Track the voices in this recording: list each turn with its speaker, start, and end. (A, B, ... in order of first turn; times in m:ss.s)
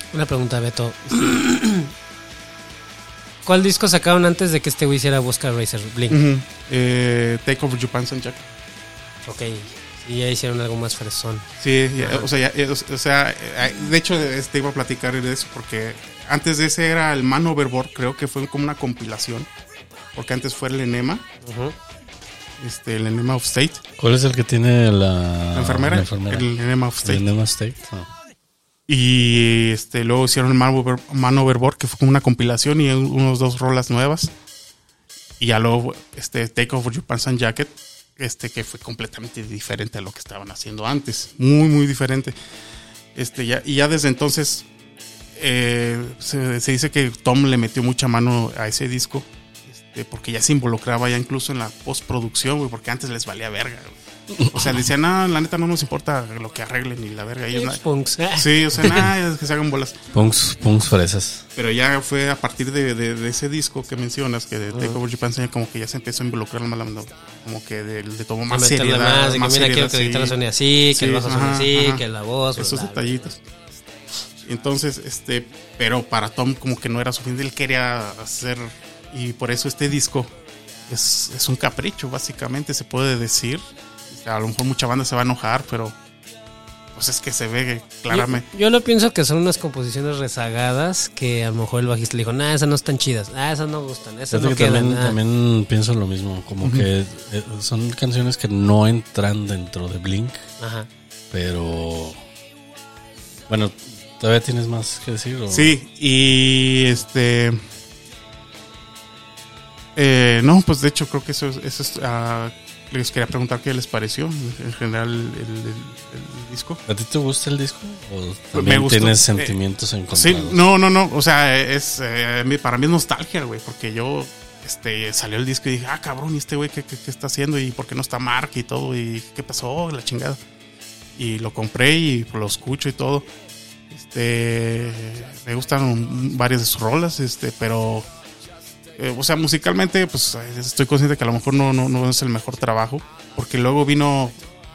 0:00.1-0:01.9 A
0:03.4-0:06.2 A
0:06.1-0:08.4 B
0:09.2-0:11.4 A
0:11.6-0:19.5 B
0:12.0-0:12.3 A
0:20.1-0:21.2 B
0:21.4-0:21.7 A
0:22.6-0:23.8 B
0:24.0-0:26.5 C
0:25.5-0:27.2 B
0:27.0-0:28.1 C
0:28.9-0:34.3 B
0:35.4-0:42.3 B
0:43.1-0:44.7 B
0:45.4-0:57.8 B
0:54.3-0:54.8 C
0:57.5-0:59.1 A
0:58.3-1:00.0 B
1:00.1-1:01.4 C
1:01.6-1:10.4 B
1:04.7-1:05.0 A
1:08.5-1:13.3 A
1:10.9-1:12.0 B
1:12.6-1:13.4 B
1:14.4-1:20.3 B
1:20.9-1:25.9 B
1:27.0-1:28.4 B
1:28.1-1:35.2 A
1:34.3-1:40.4 C
1:36.6-1:36.9 B
1:40.6-1:40.9 A
1:41.3-1:42.2 C
1:43.5-1:45.7 C
1:45.5-1:47.6 B
1:50.0-1:56.8 B
1:56.8-2:00.6 C
1:58.5-1:59.6 B
2:00.1-2:10.4 B
2:11.2-2:13.3 B
2:13.9-2:18.1 B
2:19.0-2:24.4 B